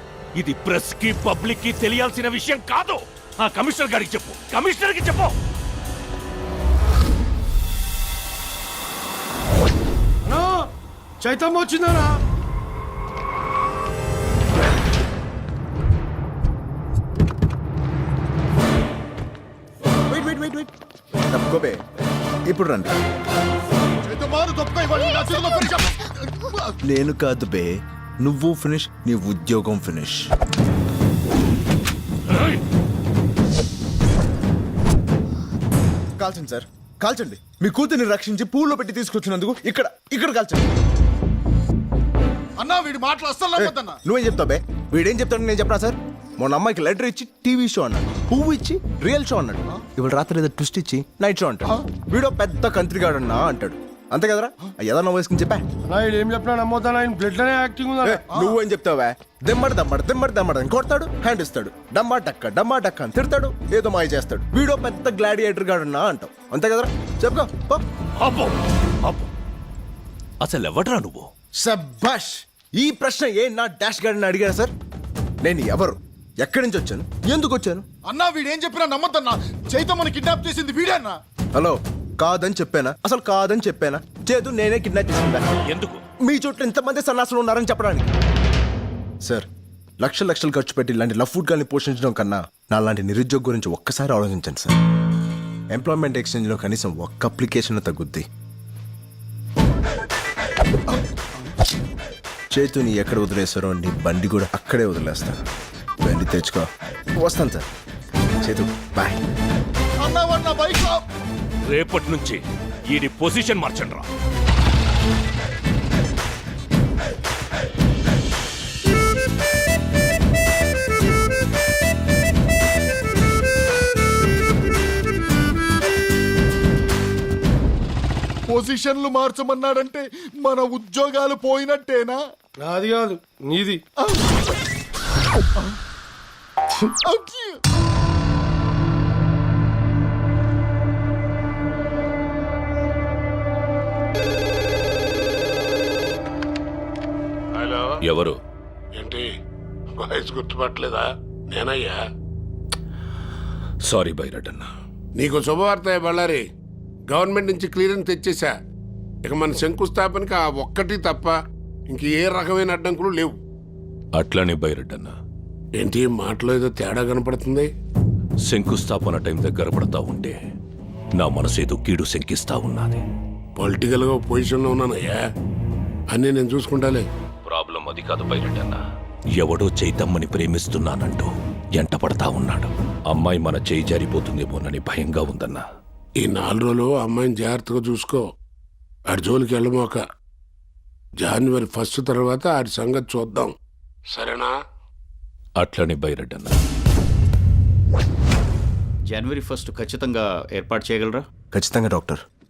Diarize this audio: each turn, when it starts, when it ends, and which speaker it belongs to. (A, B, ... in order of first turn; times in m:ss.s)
0:00.4-0:05.3 A
0:10.3-0:10.7 B
0:11.2-0:12.2 B
0:20.1-0:20.7 C
0:21.3-0:21.8 C
0:22.5-0:23.0 C
0:24.1-0:26.7 D
0:26.8-0:27.7 C
0:28.2-0:30.3 C
0:36.2-0:40.7 C
0:42.6-0:44.0 D
0:43.6-0:55.6 C
0:55.9-0:58.2 B
0:58.0-1:07.8 C
1:08.2-1:09.3 A
1:10.4-1:11.3 A
1:11.6-1:14.7 C
1:15.4-1:17.8 C
1:18.1-1:21.2 D
1:21.6-1:25.4 C
1:25.7-1:26.0 A
1:26.2-1:28.1 C
1:30.0-1:34.8 C
1:35.7-1:38.2 C
1:42.5-1:45.4 C
1:46.0-1:46.7 C
1:47.2-1:47.6 C
1:48.4-1:49.2 C
1:50.0-1:51.0 D
1:51.7-1:54.1 A
2:08.5-2:12.2 D
2:12.6-2:13.8 B
2:17.0-2:17.6 D
2:27.5-2:28.0 E
2:28.0-2:28.4 A
2:29.0-2:29.3 E
2:30.0-2:32.0 E
2:33.8-2:34.7 A
2:35.2-2:36.4 E
2:37.1-2:38.5 E
2:39.2-2:41.4 E
2:41.9-2:43.4 E
2:44.1-2:45.1 A
2:45.8-2:47.7 E
2:48.4-2:50.4 A
2:51.2-2:53.0 A
2:53.6-2:55.2 E
2:56.1-2:57.1 E
2:57.4-2:58.8 A
2:59.4-3:05.6 A
3:06.2-3:08.2 E
3:09.1-3:10.0 E
3:11.2-3:13.5 E
3:14.1-3:14.6 E
3:15.6-3:16.6 A
3:19.0-3:21.3 F
3:21.5-3:22.2 C